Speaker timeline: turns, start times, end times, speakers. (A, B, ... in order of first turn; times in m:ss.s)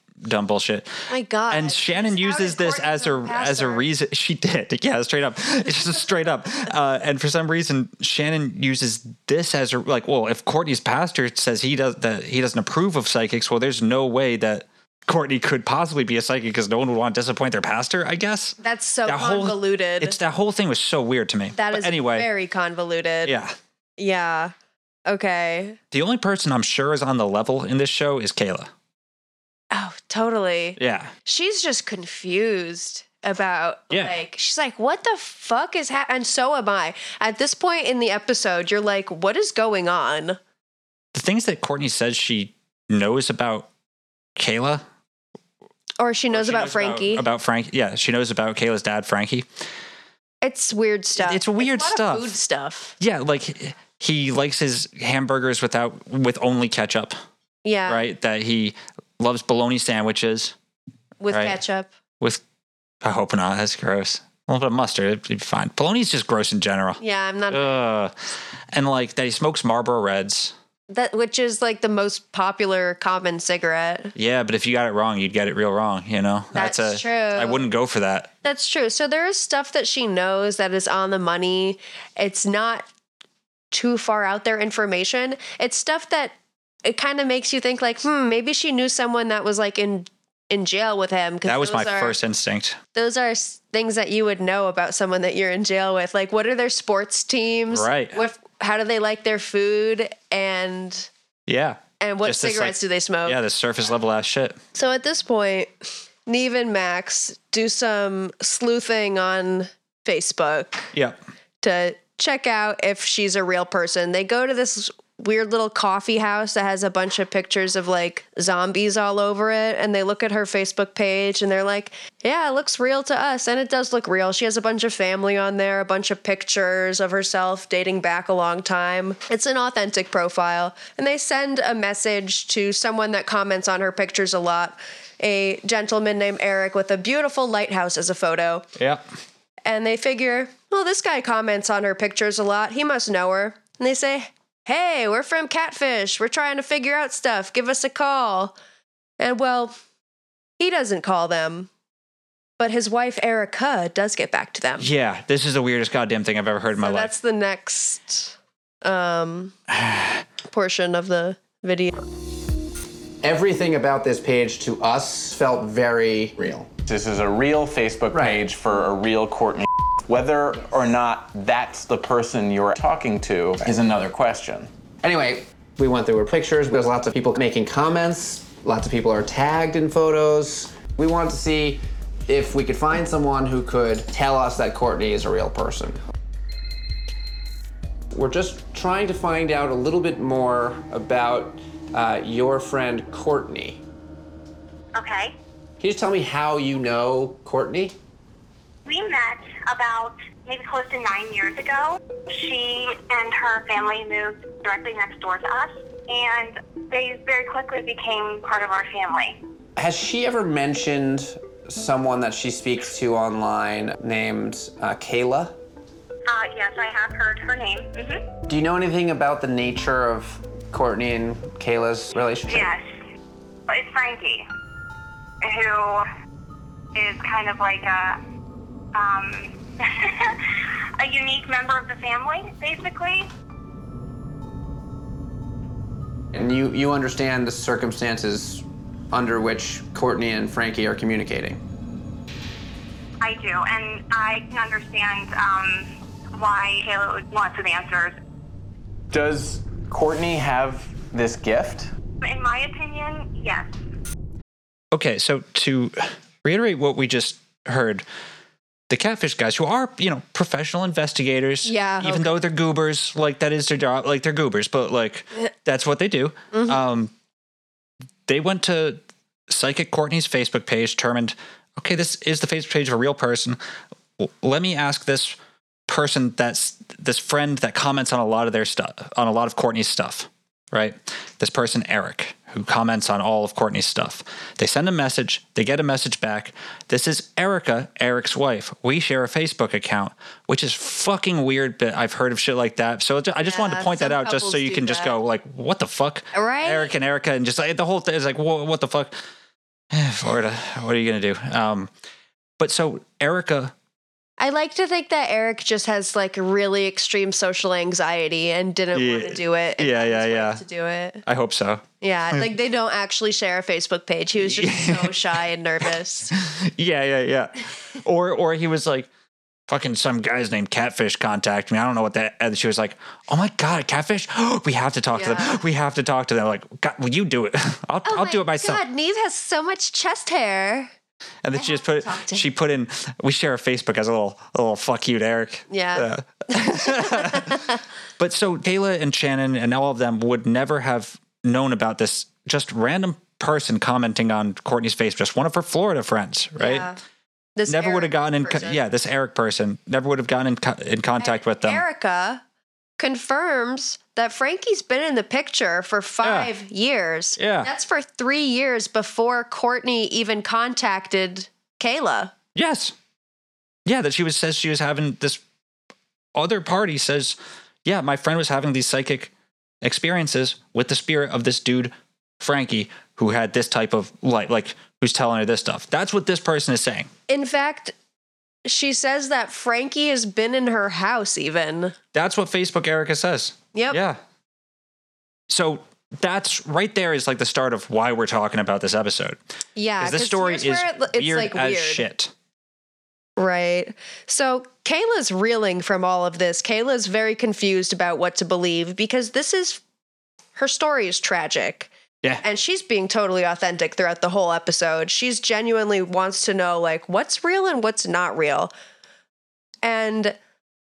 0:00.2-0:22.3 A
0:01.1-0:03.9 B
0:18.6-0:20.2 B
0:21.5-0:23.4 B
0:23.2-0:23.6 A
0:24.0-0:24.5 B
0:25.1-0:25.8 B
0:25.9-0:28.7 A
0:29.7-0:40.4 B
0:30.8-0:31.1 A
0:41.1-0:43.7 A
0:44.4-0:44.8 A
0:46.0-0:47.2 B
0:46.3-0:49.5 A
0:50.4-0:53.0 B
0:51.2-0:52.3 A
0:53.0-0:57.2 A
0:57.6-0:58.0 B
0:57.9-1:00.6 A
1:01.2-1:01.9 B
1:01.3-1:01.6 A
1:03.0-1:08.2 A
1:07.0-1:07.6 B
1:08.7-1:10.5 A
1:10.9-1:14.2 B
1:14.2-1:18.3 A
1:16.5-1:17.6 B
1:18.4-1:22.9 B
1:23.7-1:32.2 B
1:31.4-1:32.8 A
1:33.0-1:41.1 B
1:37.7-1:38.2 A
1:41.5-1:44.6 A
1:42.0-1:43.4 B
1:44.8-1:45.7 B
1:46.3-1:50.9 B
1:50.9-1:51.2 A
1:51.6-2:18.7 B
2:18.8-2:19.0 A
2:19.6-2:28.5 B
2:29.2-2:29.7 B
2:30.6-2:31.7 B
2:32.6-2:34.9 B
2:34.8-2:37.1 A
2:36.8-2:39.6 B
2:39.7-2:40.2 A
2:40.5-2:42.0 B
2:43.2-2:46.7 C
2:46.9-2:54.7 D
2:55.0-3:06.0 C
3:08.1-3:13.8 C
3:15.0-3:15.4 E
3:15.8-3:18.0 C
3:18.8-3:29.4 E
3:29.8-3:35.6 C
3:36.3-3:38.2 E
3:38.5-3:42.7 C
3:42.5-3:42.9 E
3:43.7-3:44.5 E
3:45.4-3:46.1 E
3:47.0-3:48.2 E
3:48.9-3:50.4 E
3:51.0-3:53.3 E
3:56.3-4:01.6 C
4:03.2-4:08.2 E
4:09.1-4:11.9 D
4:12.2-4:13.7 E
4:14.9-4:18.0 A
4:18.9-4:27.1 A
4:21.6-4:22.4 B
4:26.5-4:26.8 B
4:28.3-4:33.6 A
4:34.2-4:35.4 A
4:35.9-4:59.1 A
4:53.4-4:55.2 B
4:56.3-4:56.9 B
4:59.9-5:01.9 A
5:02.6-5:03.7 A
5:04.4-5:11.2 B
5:08.9-5:10.6 A
5:11.2-5:12.5 A
5:12.0-5:16.4 B
5:14.4-5:15.4 A
5:16.3-5:19.1 A
5:19.7-5:28.8 A
5:25.1-5:25.6 B
5:28.0-5:30.9 B
5:31.4-5:37.6 A
5:31.5-5:32.5 B
5:35.7-5:37.8 B
5:38.2-5:46.9 A
5:46.6-5:47.0 B
5:47.6-5:48.8 B
5:47.7-5:51.8 A
5:51.2-5:52.4 B
5:53.0-6:02.3 B
5:56.2-5:56.5 A
5:57.4-5:57.7 A
6:02.6-6:03.0 A
6:03.9-6:05.4 A
6:06.4-6:09.3 A
6:09.8-6:17.1 A
6:17.3-6:17.9 B
6:18.6-6:22.0 B
6:22.1-6:24.2 A
6:23.7-6:24.0 B
6:25.5-6:29.4 A
6:29.8-6:32.0 B
6:30.0-6:32.3 A
6:33.4-6:39.8 B
6:40.6-6:41.9 B
6:42.4-6:48.7 B
6:49.8-6:50.4 B